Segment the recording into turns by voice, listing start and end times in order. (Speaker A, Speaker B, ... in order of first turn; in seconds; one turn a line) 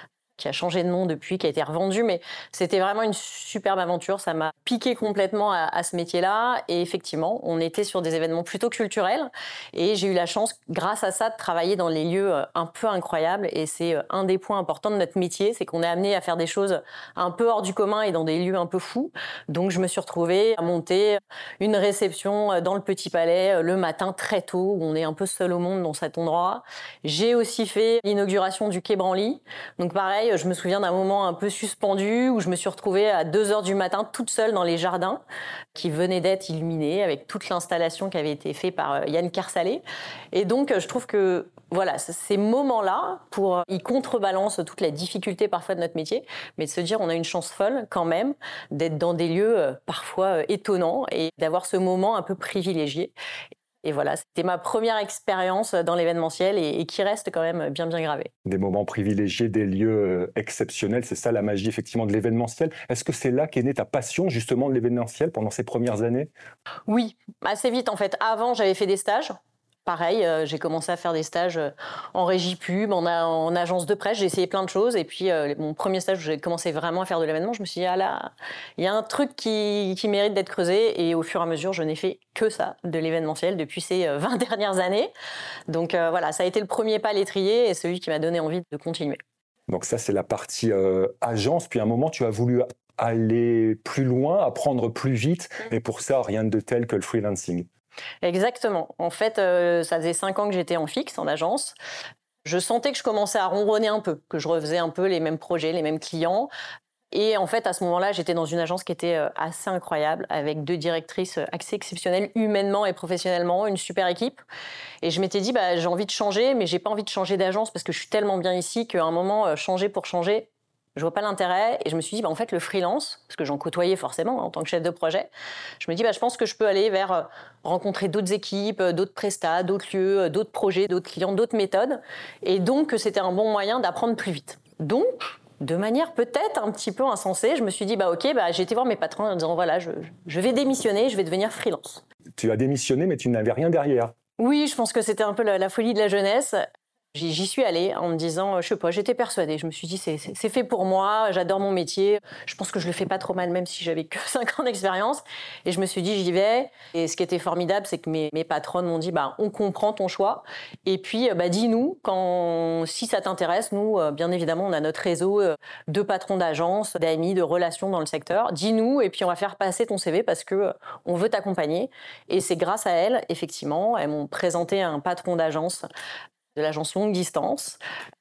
Speaker A: 0.4-35.2
Speaker A: 35.8-53.1
Speaker A: 53.8-58.3
Speaker B: 58.5-66.3
Speaker A: 66.9-69.3
Speaker A: 69.9-85.1
Speaker A: 85.7-89.2
Speaker B: 89.7-97.7
Speaker A: 98.2-101.8
Speaker A: 102.5-106.5
Speaker A: 107.1-114.4
Speaker A: 115.0-125.3
Speaker A: 125.8-142.1
Speaker B: 142.4-144.1
Speaker A: 144.4-146.6
Speaker A: 147.1-175.9
Speaker A: 176.6-177.8